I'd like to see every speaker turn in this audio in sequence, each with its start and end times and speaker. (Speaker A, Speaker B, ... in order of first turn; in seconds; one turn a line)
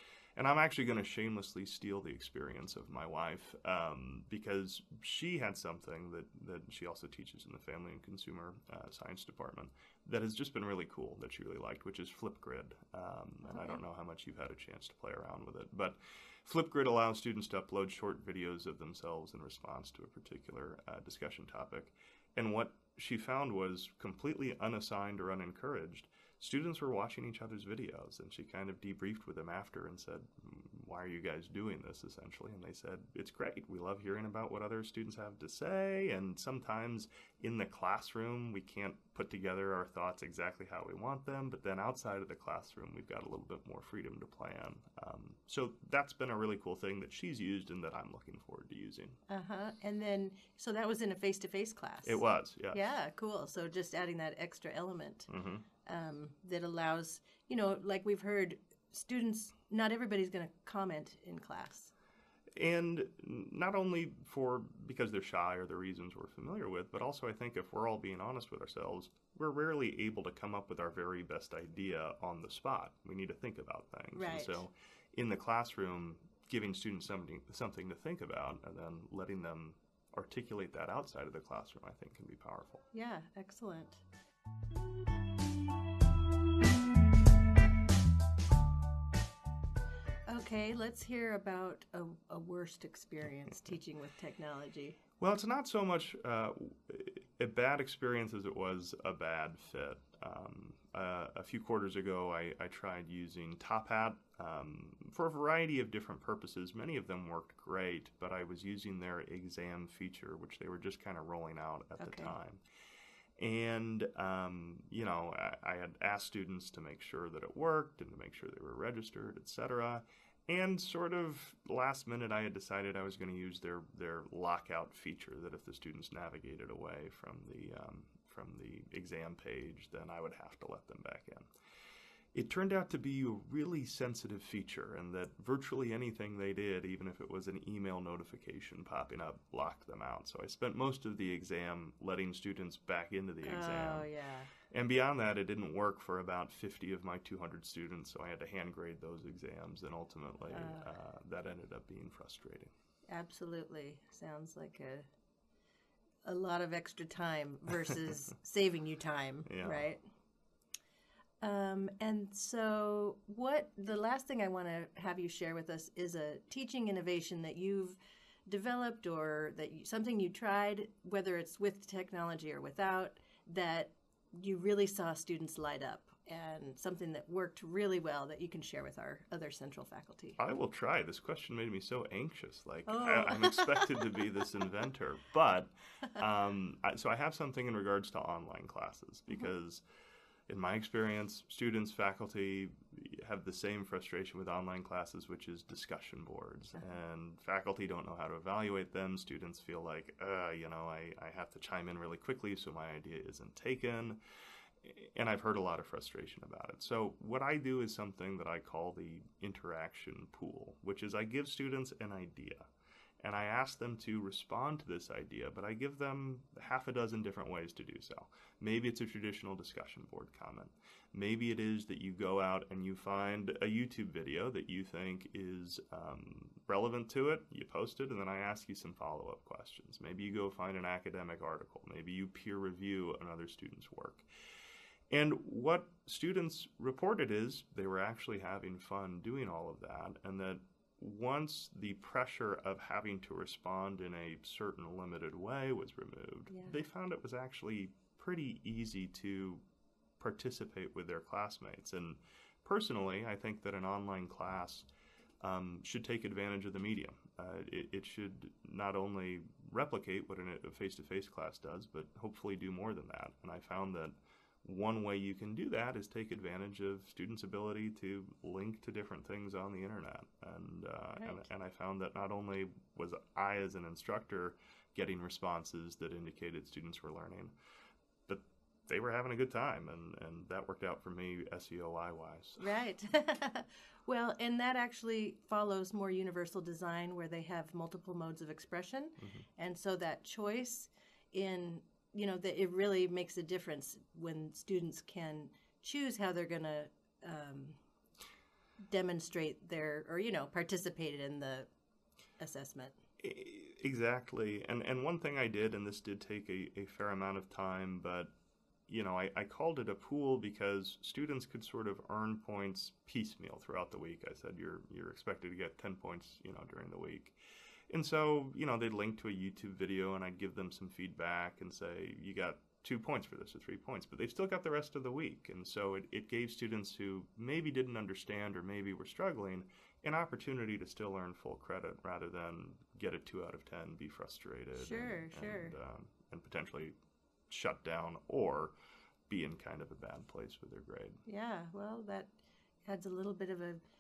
Speaker A: 0.4-49.2
Speaker B: 13.4-13.8
Speaker B: 49.3-55.3
Speaker A: 52.0-52.9
Speaker A: 55.3-55.6
Speaker B: 55.8-61.9
Speaker A: 62.6-82.8
Speaker B: 74.1-74.7
Speaker B: 82.9-84.0
Speaker B: 90.3-95.0
Speaker A: 95.2-112.6
Speaker B: 112.0-112.3
Speaker A: 113.4-131.5
Speaker A: 132.3-144.1
Speaker B: 143.4-144.5
Speaker A: 144.7-152.7
Speaker B: 150.5-150.9
Speaker B: 153.1-155.1
Speaker B: 156.2-160.0
Speaker A: 159.5-159.9
Speaker B: 161.4-180.4
Speaker A: 180.4-189.8
Speaker B: 182.9-184.2
Speaker A: 190.5-204.2
Speaker A: 204.8-212.7
Speaker A: 213.2-234.3
Speaker A: 235.1-249.6
Speaker B: 246.5-246.8
Speaker A: 250.2-254.9
Speaker A: 255.4-277.5
Speaker B: 271.2-271.5
Speaker A: 278.3-282.8
Speaker B: 282.6-297.8
Speaker A: 289.2-289.5
Speaker B: 298.9-301.7
Speaker B: 302.4-303.0
Speaker A: 303.2-308.3
Speaker A: 308.9-317.4
Speaker A: 317.9-336.9
Speaker B: 334.8-335.8
Speaker A: 337.5-338.8
Speaker A: 339.3-341.2
Speaker B: 341.3-342.3
Speaker B: 342.9-343.8